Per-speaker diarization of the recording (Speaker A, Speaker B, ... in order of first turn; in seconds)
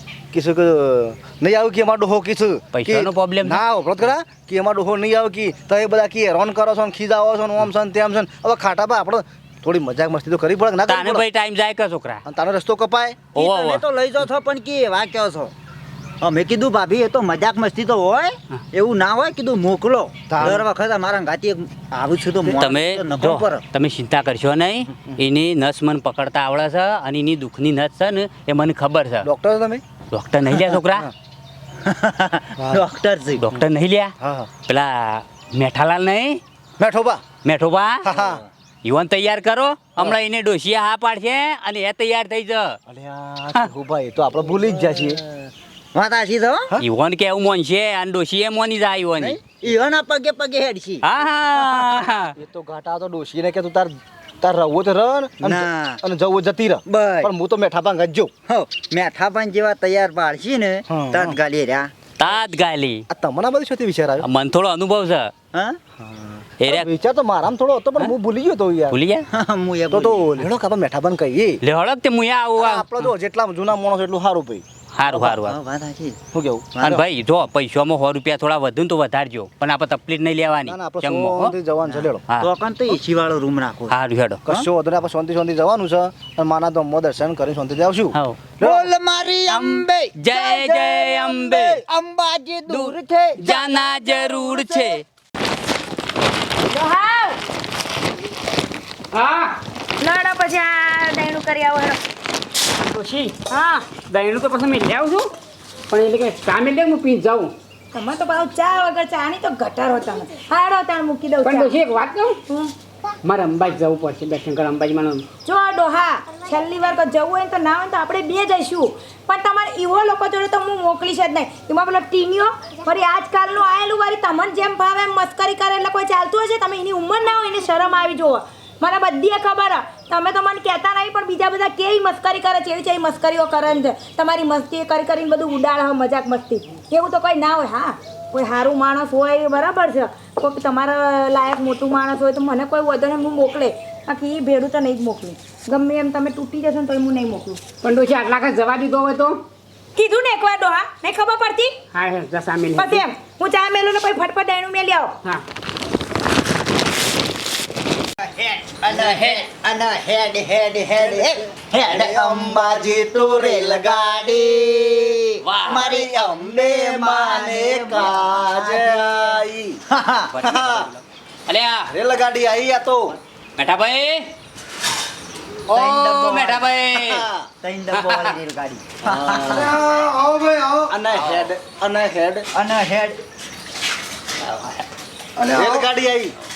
Speaker A: 0.3-11.2, 12.2-13.2, 20.3-20.6, 29.2-29.8, 30.5-31.1, 34.2-34.5, 36.8-37.2, 38.0-38.4, 42.9-45.5, 52.4-58.3, 60.9-61.4, 63.1-64.2, 66.0-69.0, 69.9-71.6, 72.6-75.3, 76.3-77.0, 80.7-82.2, 84.5-88.9, 161.0-164.1, 165.7-169.8, 170.4-170.8, 171.9-173.2, 176.9-177.5, 179.0-179.8, 180.9-182.5, 185.5-186.3
Speaker B: 2.7-4.1, 10.8-12.2, 13.3-13.8, 22.6-29.3, 30.1-31.1, 33.4-34.1, 34.7-36.4, 37.4-38.0, 38.8-42.8, 46.8-49.4, 51.0-52.3, 62.2-63.0, 64.2-65.3, 66.6-66.9, 68.9-69.3, 71.6-73.1, 74.9-75.6, 76.8-81.5, 83.9-84.4, 88.1-88.4, 89.5-91.8, 92.7-95.0, 159.0-159.4, 165.4-165.9, 170.3-171.9, 173.6-174.3, 175.7-177.2, 177.9-178.3, 181.1-181.5, 184.4-184.8
Speaker C: 13.3-15.5, 16.2-23.6, 31.8-33.5, 45.9-46.7, 49.2-51.0, 51.5-52.0, 55.4-56.0, 56.9-57.3, 58.5-61.9, 65.5-65.8, 69.3-70.4, 75.3-76.2, 76.7-77.0, 82.0-84.0, 88.6-95.0, 158.2-170.3, 175.7-176.7, 177.6-179.7, 182.5-183.2
Speaker D: 96.7-97.4, 100.0-102.0, 103.5-103.8, 107.9-111.7, 112.5-112.7, 115.4-147.6, 149.9-151.7, 152.8-155.1
Speaker E: 99.1-99.6, 102.8-103.3, 104.1-105.3, 105.9-107.5, 111.4-112.4, 113.2-115.2, 147.8-149.4, 151.9-153.0
Speaker F: 179.5-180.9, 185.4-185.9